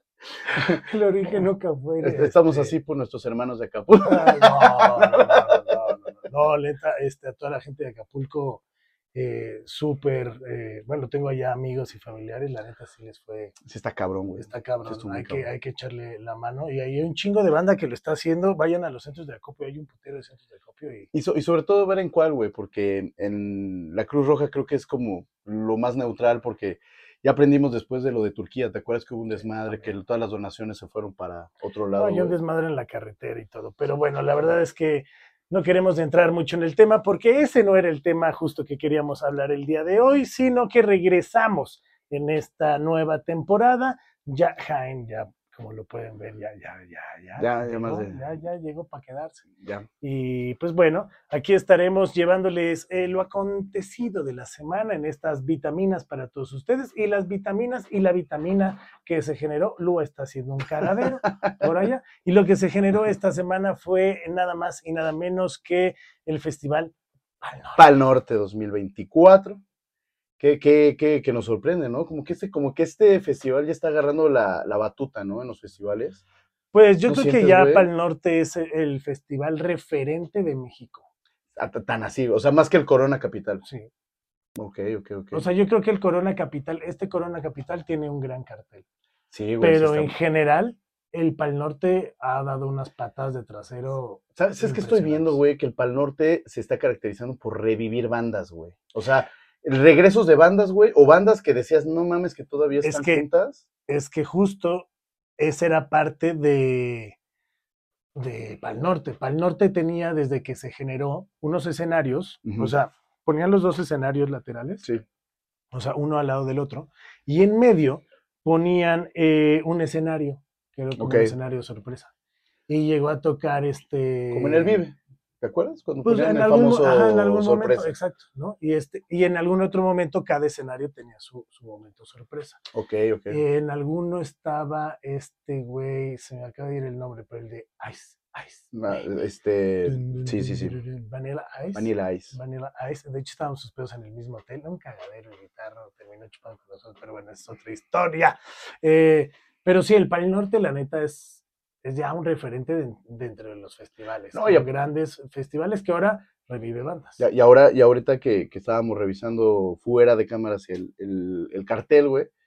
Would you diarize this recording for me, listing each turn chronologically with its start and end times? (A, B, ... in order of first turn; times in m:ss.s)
0:00.5-0:02.8 A
0:02.0-0:05.9 B
0:04.1-0:08.6 A
0:09.1-0:13.6 A
0:13.6-0:15.5 B
0:14.4-0:21.1 A
0:21.1-0:32.4 B
0:29.4-0:29.9 A
0:32.0-0:49.4 A
0:47.4-0:48.2 B
0:49.6-0:49.9 B
0:50.0-1:07.9 A
1:01.0-1:01.7 B
1:07.8-1:09.6 B
1:10.4-1:16.2 B
1:16.7-1:21.0 A
1:17.1-1:17.9 B
1:21.6-1:23.6 B
1:23.6-1:23.9 A
1:24.6-1:25.4 B
1:25.3-1:28.8 A
1:29.3-1:30.1 B
1:29.6-1:35.4 A
1:34.4-1:43.6 B
1:42.8-1:43.3 A
1:43.9-1:44.9 A
1:45.4-1:47.2 A
1:48.2-1:54.9 A
1:52.4-1:52.7 B
1:55.7-2:02.1 A
2:01.0-2:01.4 B
2:02.7-2:04.8 A
2:04.3-2:07.9 B
2:06.0-2:12.6 A
2:12.7-2:13.4 B
2:13.3-2:19.1 A
2:18.7-2:20.8 B
2:19.9-2:37.2 A
2:21.8-2:22.4 B
2:34.3-2:34.7 B
2:37.2-2:42.3 B